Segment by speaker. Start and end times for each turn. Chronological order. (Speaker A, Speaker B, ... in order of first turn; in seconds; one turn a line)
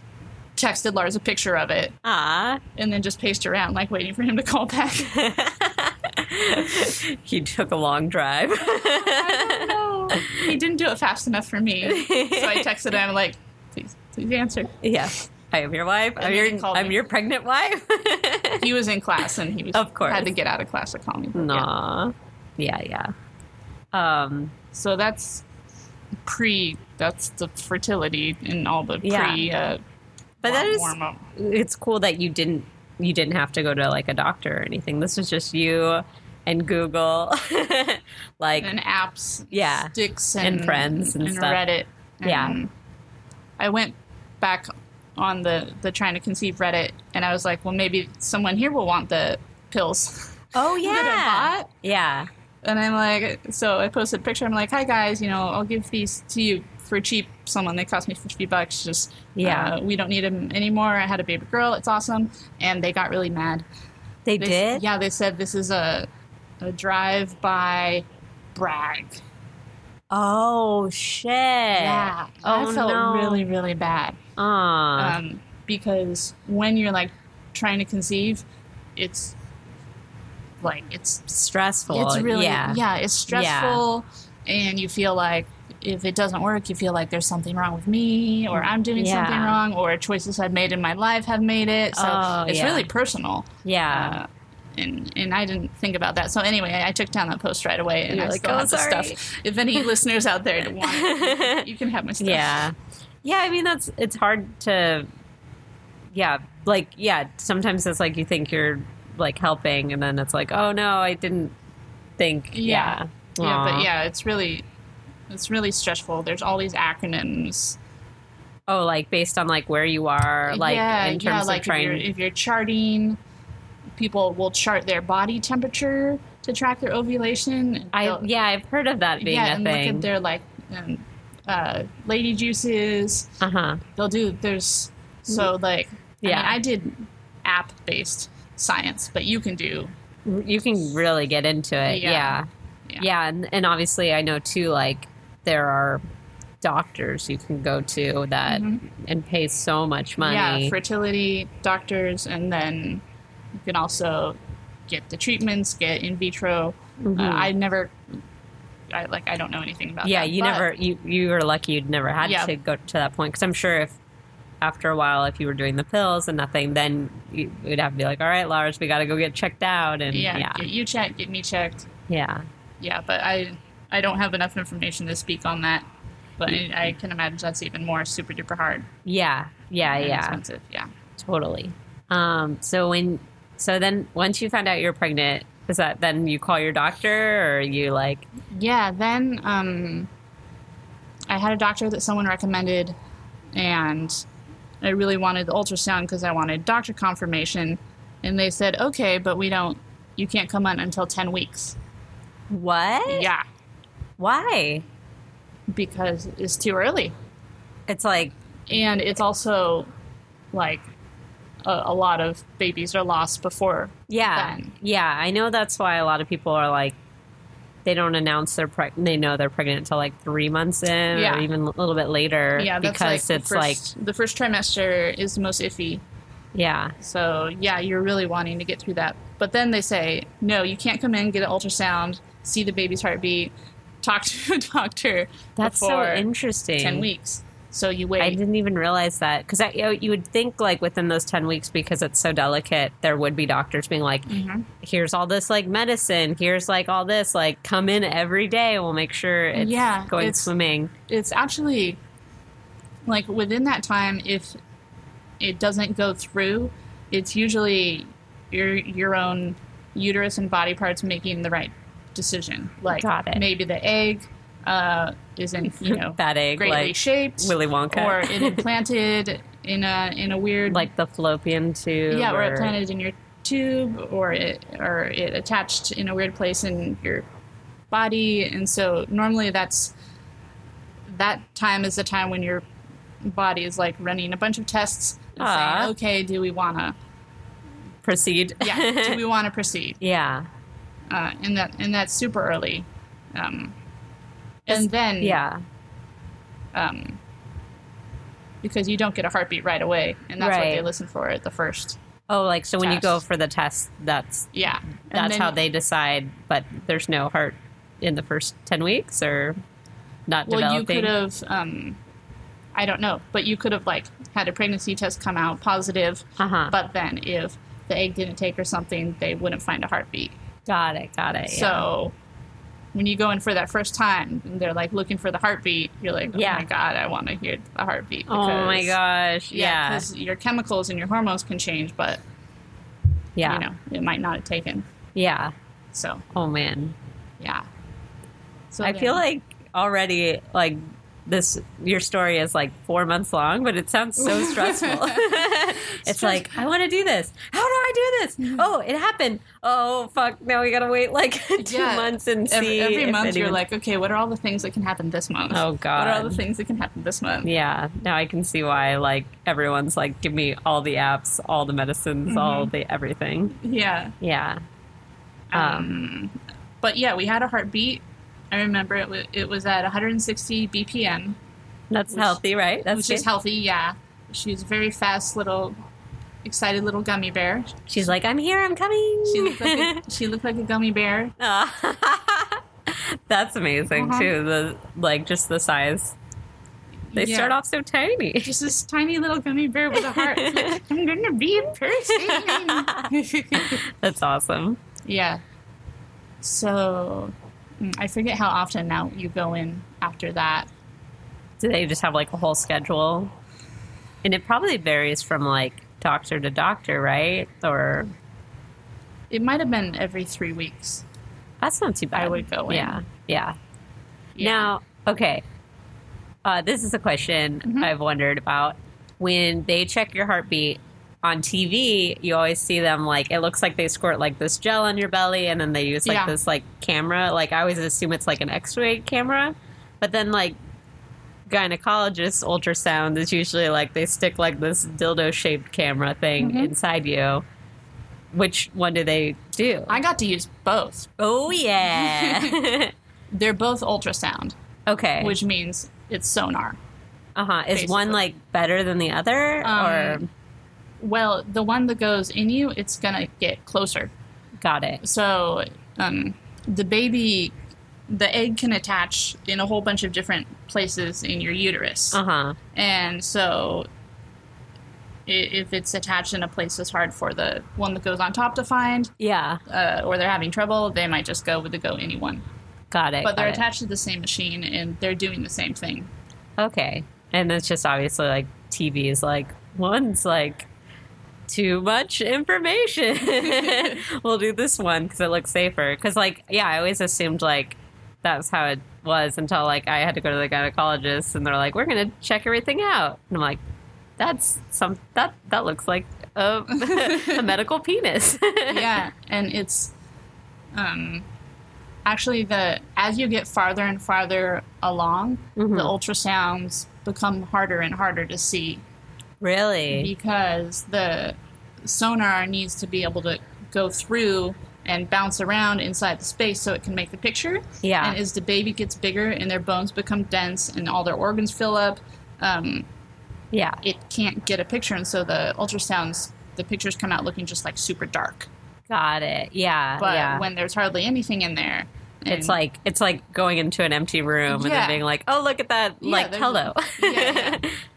Speaker A: 0.6-2.0
Speaker B: 2.0-2.6
Speaker A: 2.8-5.2
Speaker B: 5.1-10.5
Speaker A: 8.7-14.8
Speaker B: 11.8-12.7
Speaker B: 14.8-18.7
Speaker A: 16.2-17.0
Speaker A: 18.6-21.7
Speaker B: 19.7-20.3
Speaker B: 21.3-23.1
Speaker B: 23.9-24.5
Speaker A: 24.7-25.4
Speaker A: 26.2-29.8
Speaker B: 29.0-29.4
Speaker A: 30.4-31.2
Speaker B: 30.4-38.7
Speaker A: 38.6-42.7
Speaker B: 39.5-41.6
Speaker B: 42.2-42.6
Speaker A: 43.6-51.7
Speaker B: 50.5-52.3
Speaker A: 52.6-63.6
Speaker B: 59.3-59.7
Speaker B: 64.2-64.8
Speaker A: 64.4-66.1
Speaker A: 66.6-69.2
Speaker B: 70.1-73.5
Speaker A: 71.7-74.2
Speaker B: 74.4-75.2
Speaker A: 75.0-78.4
Speaker A: 79.0-79.3
Speaker A: 80.6-81.3
Speaker B: 81.3-83.8
Speaker A: 81.9-102.6
Speaker B: 88.5-89.6
Speaker B: 91.9-92.9
Speaker B: 93.6-94.2
Speaker B: 98.1-99.2
Speaker B: 100.8-101.7
Speaker B: 102.2-105.1
Speaker B: 106.1-111.5
Speaker B: 112.2-113.9
Speaker A: 112.5-114.6
Speaker A: 115.3-117.8
Speaker B: 118.7-122.0
Speaker A: 120.5-123.2
Speaker A: 124.0-128.3
Speaker B: 127.9-130.1
Speaker A: 129.2-133.4
Speaker B: 133.4-133.8
Speaker A: 133.9-139.9
Speaker B: 136.2-136.6
Speaker B: 140.2-142.4
Speaker A: 141.8-143.1
Speaker B: 143.0-146.0
Speaker B: 146.6-150.7
Speaker A: 148.5-148.8
Speaker A: 150.2-153.0
Speaker A: 153.6-154.4
Speaker A: 154.9-157.9
Speaker B: 157.0-157.5
Speaker A: 158.9-160.7
Speaker B: 160.0-164.0
Speaker A: 162.2-162.5
Speaker B: 164.6-170.7
Speaker A: 170.1-171.9
Speaker B: 172.1-172.4
Speaker A: 172.8-175.8
Speaker A: 176.4-178.9
Speaker B: 179.0-180.4
Speaker A: 179.8-180.9
Speaker B: 181.2-188.3
Speaker A: 188.5-190.1
Speaker A: 191.3-192.9
Speaker A: 193.5-194.2
Speaker A: 194.8-201.8
Speaker B: 202.5-203.3
Speaker A: 203.1-203.4
Speaker B: 204.2-204.8
Speaker A: 205.7-207.1
Speaker B: 207.9-208.3
Speaker A: 208.7-209.9
Speaker A: 210.5-210.8
Speaker A: 211.6-214.7
Speaker B: 214.1-217.0
Speaker B: 217.8-223.8
Speaker A: 221.1-221.5
Speaker A: 222.6-226.0
Speaker B: 226.5-226.9
Speaker A: 227.0-233.5
Speaker A: 234.0-236.3
Speaker B: 235.6-237.1
Speaker A: 236.8-238.4
Speaker B: 238.2-250.9
Speaker A: 244.3-244.7
Speaker A: 249.5-250.5
Speaker A: 251.1-252.0
Speaker A: 253.1-254.5
Speaker A: 255.4-270.9
Speaker B: 262.9-263.4
Speaker B: 265.8-268.6
Speaker B: 270.7-272.8
Speaker A: 272.1-277.2
Speaker A: 277.9-279.9
Speaker A: 281.1-282.6
Speaker A: 283.2-286.9
Speaker B: 285.4-285.9
Speaker B: 288.0-289.2
Speaker A: 288.6-290.0
Speaker B: 290.0-290.5
Speaker A: 291.1-293.7
Speaker A: 294.6-295.4
Speaker B: 294.7-295.6
Speaker A: 296.7-297.2
Speaker A: 298.6-302.0
Speaker B: 300.4-300.9
Speaker B: 302.3-304.5
Speaker A: 302.8-303.2
Speaker A: 304.5-305.6
Speaker B: 305.1-309.6
Speaker B: 310.3-311.1
Speaker A: 310.5-312.0
Speaker A: 312.7-320.3
Speaker B: 316.4-316.7
Speaker B: 320.6-321.9
Speaker A: 321.4-322.1
Speaker A: 322.9-329.0
Speaker B: 326.3-326.7
Speaker B: 328.3-330.1
Speaker A: 329.5-332.2
Speaker B: 333.4-333.6
Speaker A: 333.4-334.9
Speaker B: 335.1-335.5
Speaker A: 335.9-336.2
Speaker B: 336.3-336.9
Speaker A: 337.4-337.6
Speaker A: 338.7-339.2
Speaker B: 338.8-353.6
Speaker A: 344.2-346.5
Speaker A: 351.6-357.5
Speaker B: 355.5-356.4
Speaker B: 357.4-363.6
Speaker A: 362.3-362.7
Speaker A: 363.6-364.1
Speaker B: 364.2-364.6
Speaker A: 365.5-371.4
Speaker B: 365.5-365.9
Speaker B: 371.9-373.2
Speaker A: 372.1-375.7
Speaker A: 376.4-377.9
Speaker B: 377.9-380.0
Speaker A: 379.2-381.3
Speaker B: 381.4-386.1
Speaker A: 383.9-384.3
Speaker A: 387.1-387.6
Speaker B: 387.1-388.5
Speaker A: 388.4-393.8
Speaker B: 389.9-390.8
Speaker B: 392.1-394.8
Speaker A: 395.0-395.4
Speaker A: 396.4-400.7
Speaker B: 401.6-403.3
Speaker B: 404.2-408.1
Speaker A: 409.3-411.0
Speaker B: 411.6-413.6
Speaker A: 412.1-413.0
Speaker A: 414.3-414.7
Speaker B: 414.4-415.4
Speaker B: 416.4-430.6
Speaker A: 417.6-417.9
Speaker A: 426.0-426.3
Speaker B: 431.5-437.4
Speaker A: 436.4-436.7
Speaker B: 438.3-440.0
Speaker A: 439.9-441.1
Speaker B: 441.2-442.9
Speaker A: 441.8-442.6
Speaker A: 443.3-444.5
Speaker B: 444.9-445.4
Speaker A: 445.2-446.8
Speaker B: 447.4-450.3
Speaker A: 447.7-448.2
Speaker A: 449.6-450.2
Speaker A: 451.0-454.1
Speaker B: 454.6-455.0
Speaker A: 455.0-457.5
Speaker A: 458.1-462.2
Speaker B: 462.1-462.6
Speaker A: 462.7-463.9
Speaker A: 465.3-469.1
Speaker B: 469.2-469.6
Speaker A: 469.7-472.4
Speaker B: 472.9-473.6
Speaker A: 473.2-476.1
Speaker B: 476.6-480.7
Speaker B: 481.5-493.6
Speaker A: 483.5-483.9
Speaker B: 494.2-498.9
Speaker A: 496.8-497.4
Speaker A: 498.7-499.9
Speaker A: 500.7-501.2
Speaker A: 502.0-508.8
Speaker B: 505.6-505.9
Speaker B: 509.4-510.1
Speaker A: 509.9-522.9
Speaker B: 517.8-518.2
Speaker B: 523.5-523.8
Speaker A: 523.8-528.5
Speaker B: 528.9-530.5
Speaker A: 530.0-532.6
Speaker B: 532.3-537.7
Speaker A: 534.5-535.0
Speaker A: 536.0-537.6